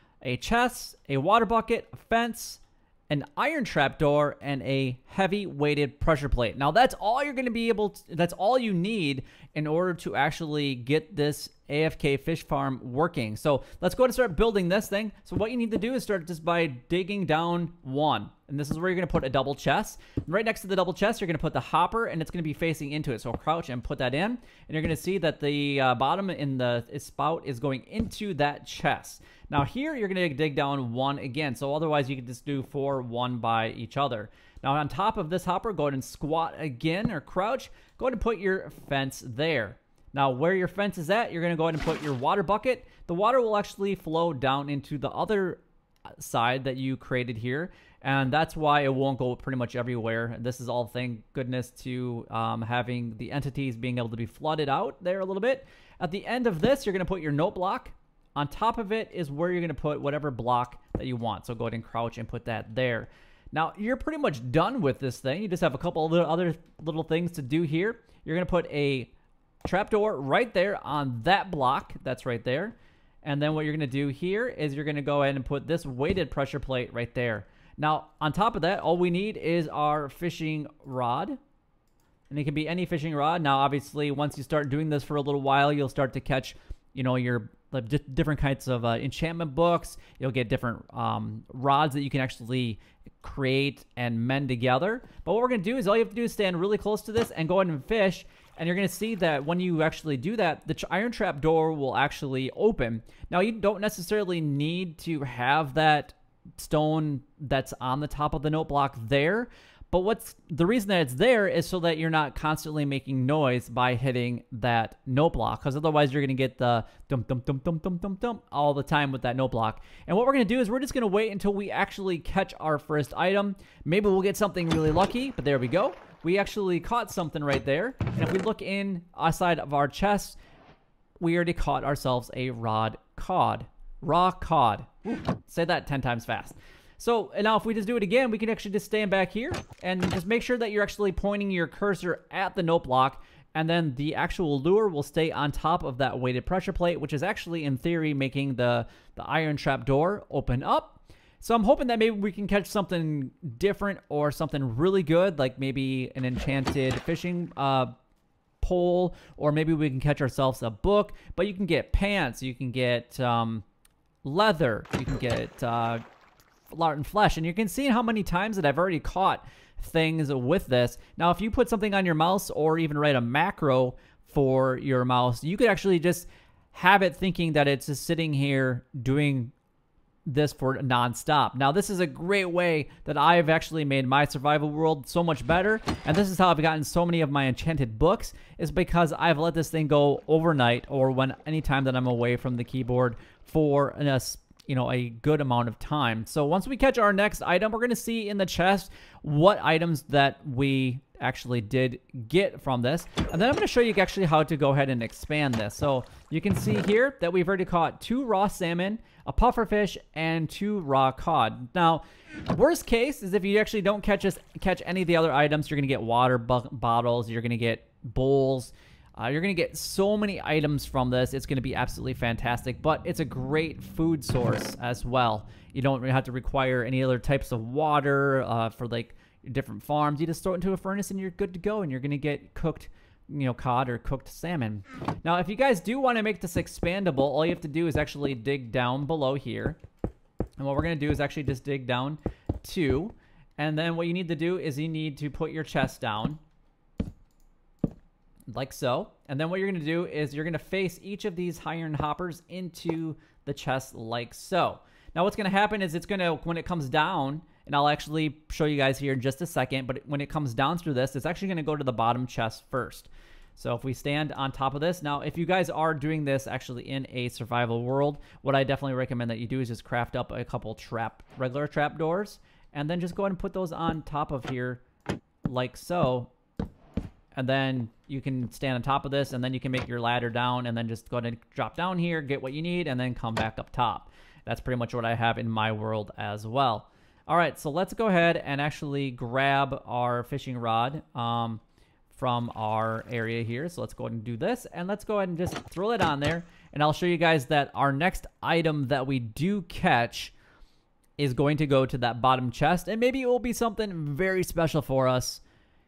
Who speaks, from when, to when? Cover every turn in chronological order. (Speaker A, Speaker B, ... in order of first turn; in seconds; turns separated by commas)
Speaker A: 0.2-45.6, Speaker A: 46.2-69.1, Speaker A: 69.6-81.4, Speaker A: 82.3-130.4, Speaker A: 131.2-157.9, Speaker A: 158.6-163.7, Speaker A: 164.2-166.0, Speaker A: 166.7-179.5, Speaker A: 180.2-239.8, Speaker A: 240.6-246.4, Speaker A: 248.5-274.8, Speaker A: 275.5-276.3, Speaker A: 277.4-300.3, Speaker A: 301.2-305.4